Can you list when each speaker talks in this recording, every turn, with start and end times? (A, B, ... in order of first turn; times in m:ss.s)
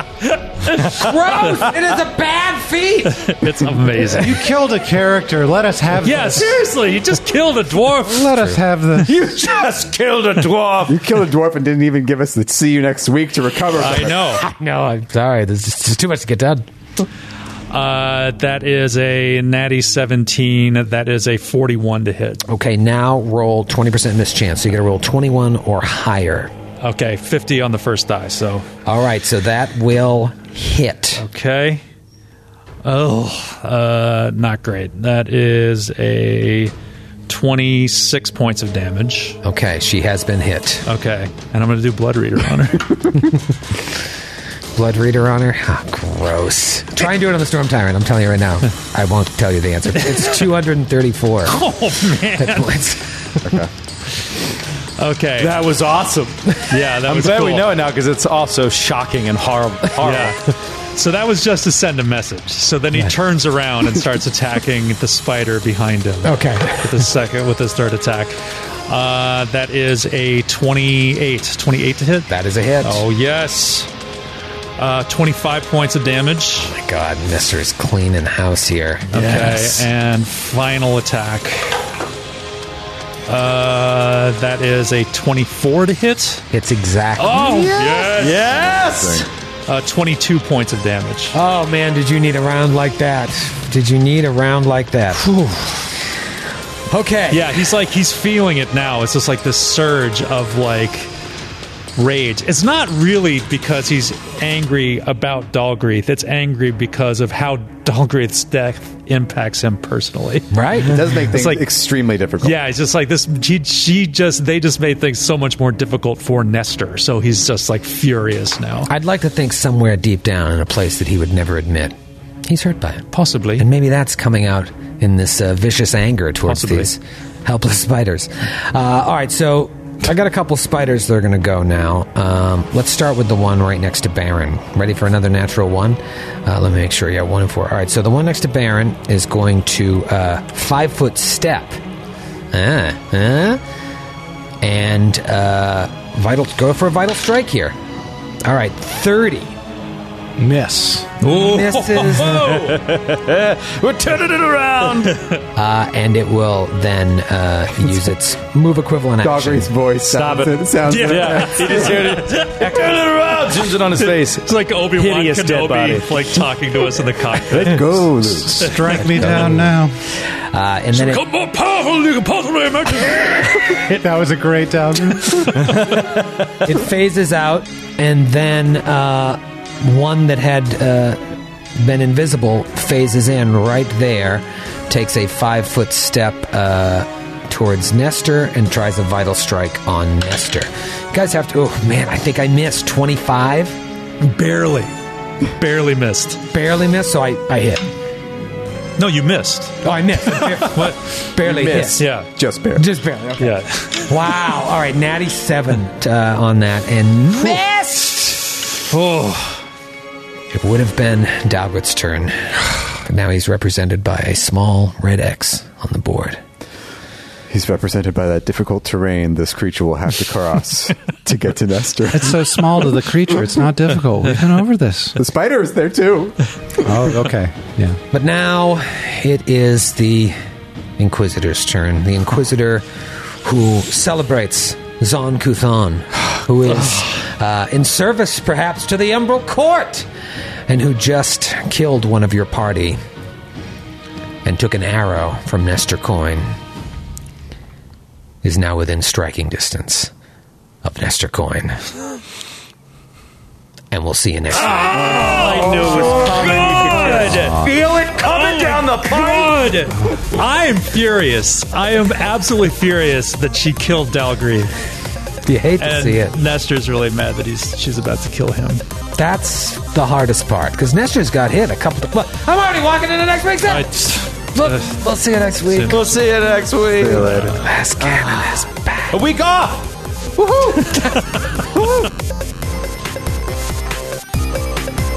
0:00.3-0:01.6 A
0:00.7-0:03.4 B
0:03.1-0:04.5 A
0:04.0-0:06.6 C
0:06.0-0:08.6 A
0:08.0-0:09.2 C
0:09.1-0:11.0 D
0:10.9-0:14.4 E
0:13.8-0:14.4 A
0:14.2-0:16.7 B
0:17.7-0:22.4 A
0:22.5-0:26.5 B
0:26.8-0:28.7 A
0:28.9-0:31.2 B
0:31.2-0:31.8 A
0:32.8-0:36.7 A
0:37.3-0:39.4 A
0:39.4-0:40.9 B
0:40.9-0:43.3 A
0:44.8-0:51.6 B
0:51.5-0:52.8 A
0:52.4-0:53.6 B
0:53.4-0:53.7 E
0:55.0-0:55.6 A
0:55.4-1:00.4 D
0:56.7-0:57.7 A
1:00.0-1:12.3 A
1:06.2-1:07.1 B
1:12.3-1:13.0 B
1:12.8-1:13.9 A
1:14.8-1:16.7 A
1:16.6-1:19.9 B
1:19.1-1:21.8 A
1:23.3-1:26.4 A
1:26.5-1:27.9 B
1:27.2-1:28.7 A
1:28.0-1:29.3 D
1:28.3-1:29.3 E
1:29.7-1:31.4 A
1:31.3-1:35.3 B
1:35.3-1:35.8 A
1:36.9-1:37.6 B
1:37.3-1:41.1 A
1:42.0-1:51.6 A
1:50.5-1:51.0 B
1:50.8-1:52.6 E
1:52.4-1:58.9 A
1:58.9-2:21.8 B
2:03.1-2:03.7 A
2:06.5-2:06.9 A
2:22.5-2:23.6 B
2:24.6-2:27.8 B
2:28.4-2:29.6 B
2:30.4-2:31.1 C
2:31.2-2:32.9 A
2:31.3-2:32.6 B
2:32.5-2:35.2 D
2:35.6-2:39.7 B
2:39.2-2:42.2 E
2:40.1-2:46.5 D
2:40.9-2:42.9 A
2:44.0-2:48.1 A
2:47.5-2:48.8 E
2:48.4-2:50.0 C
2:48.7-2:49.5 A
2:49.0-2:51.2 B
2:50.9-2:53.9 A
2:53.9-2:55.8 C
2:55.3-2:55.9 A
2:56.6-3:13.8 B
3:14.2-3:14.9 A
3:15.5-3:16.4 A
3:16.5-3:17.8 B
3:19.0-3:21.1 A
3:19.8-3:22.0 B
3:21.4-3:22.9 E
3:22.0-3:22.3 A
3:22.8-3:28.4 B
3:23.4-3:24.1 A
3:28.8-3:29.6 A
3:30.5-3:36.4 B
3:37.5-3:42.5 E
3:42.1-3:45.2 C
3:45.2-3:46.4 E
3:46.8-3:48.0 C
3:48.1-3:50.4 B
3:51.0-4:00.1 B
4:00.7-4:03.0 B
4:04.4-4:06.6 B
4:08.4-4:10.1 B
4:10.8-4:11.8 B
4:13.9-4:15.3 B
4:14.6-4:17.7 A
4:14.7-4:19.8 D
4:17.3-4:17.7 C
4:18.2-4:24.8 A
4:25.4-4:26.4 B
4:25.8-4:28.8 A
4:29.2-4:33.9 B
4:33.7-4:35.0 A
4:34.5-4:36.0 B
4:35.6-4:36.0 A
4:35.9-4:38.5 D
4:37.0-4:37.4 E
4:37.2-4:37.6 A
4:37.5-4:39.1 B
4:39.1-4:41.1 D